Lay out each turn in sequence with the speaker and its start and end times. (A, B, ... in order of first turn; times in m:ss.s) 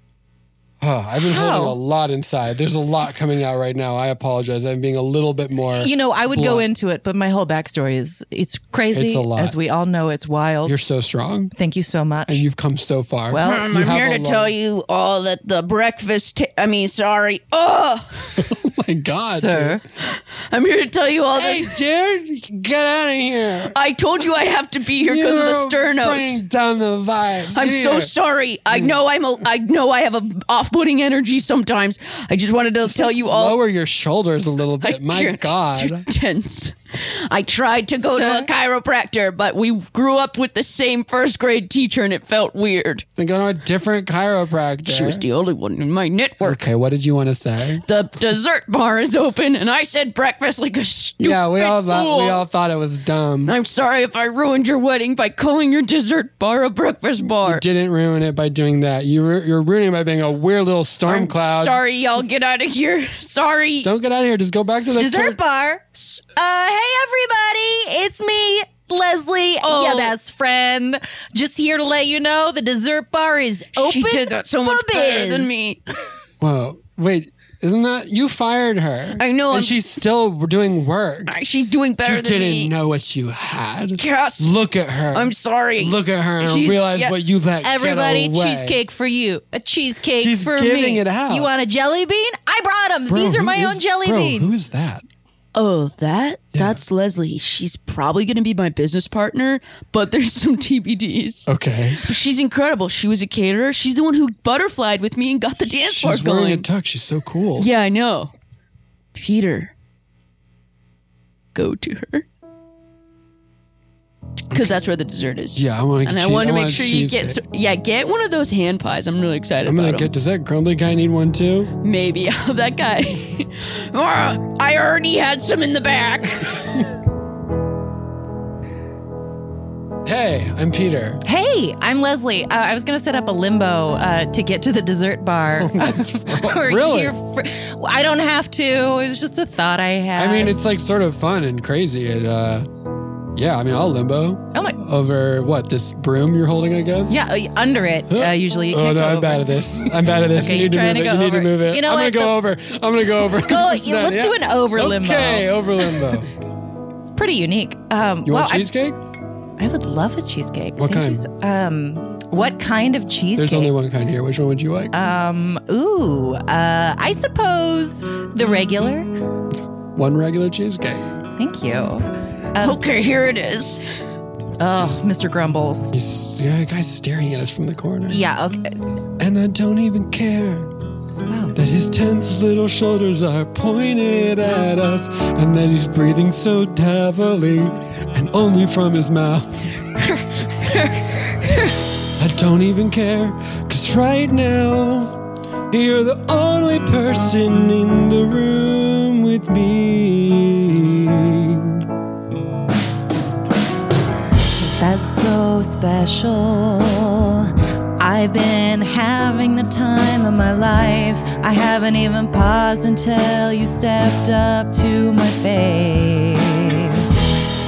0:00.8-0:06.7 A
0:01.2-0:01.8 B
0:05.7-0:10.8 B
0:08.9-0:09.6 A
0:10.6-0:11.5 A
0:11.6-0:12.4 B
0:12.3-0:14.5 A
0:13.3-0:13.7 B
0:13.4-0:18.3 C
0:18.4-0:19.8 A
0:19.3-0:19.8 B
0:20.1-0:21.7 C
0:21.3-0:23.8 A
0:23.7-0:26.4 C
0:25.0-0:28.1 A
0:27.6-0:33.6 C
0:32.8-0:36.1 A
0:34.8-0:43.0 C
0:38.0-0:38.5 B
0:43.2-0:45.2 A
0:44.8-0:46.6 C
0:46.4-0:47.8 A
0:47.8-0:52.4 C
0:51.2-0:53.5 A
0:53.4-0:57.6 C
0:57.4-1:01.8 A
1:01.0-1:03.9 C
1:03.8-1:05.4 A
1:04.9-1:15.5 B
1:09.6-1:10.1 C
1:13.8-1:15.8 C
1:16.4-1:21.3 A
1:19.2-1:20.0 C
1:21.3-1:22.7 C
1:22.0-1:28.8 A
1:24.0-1:24.5 C
1:25.1-1:27.2 C
1:27.6-1:34.6 B
1:30.2-1:31.5 A
1:33.1-1:35.0 A
1:35.5-1:41.5 C
1:36.5-1:36.8 A
1:41.5-1:42.0 A
1:42.0-1:46.7 C
1:45.7-1:47.7 A
1:47.6-1:48.3 C
1:49.1-1:49.7 C
1:51.5-1:52.3 C
1:54.5-2:00.1 C
1:55.5-1:57.4 A
1:59.6-2:01.7 A
2:01.8-2:06.6 C
2:10.0-2:11.2 A
2:11.2-2:20.5 B
2:15.5-2:17.2 A
2:20.1-2:22.7 A
2:23.3-2:27.2 A
2:27.1-2:32.5 B
2:28.1-2:36.3 A
2:33.2-2:35.5 B
2:37.1-2:38.7 B
2:38.2-2:39.0 A
2:39.6-2:43.7 B
2:40.8-2:41.2 A
2:43.4-2:44.9 A
2:44.9-2:49.1 B
2:50.0-2:51.0 A
2:51.4-2:52.8 B
2:52.6-2:53.8 C
2:54.6-2:55.9 B
2:55.9-2:58.2 A
2:58.1-2:58.8 B
2:59.2-3:00.7 A
3:01.3-3:01.6 B
3:01.5-3:09.7 A
3:10.0-3:11.8 C
3:12.2-3:15.1 A
3:15.7-3:21.8 A
3:24.6-3:37.2 B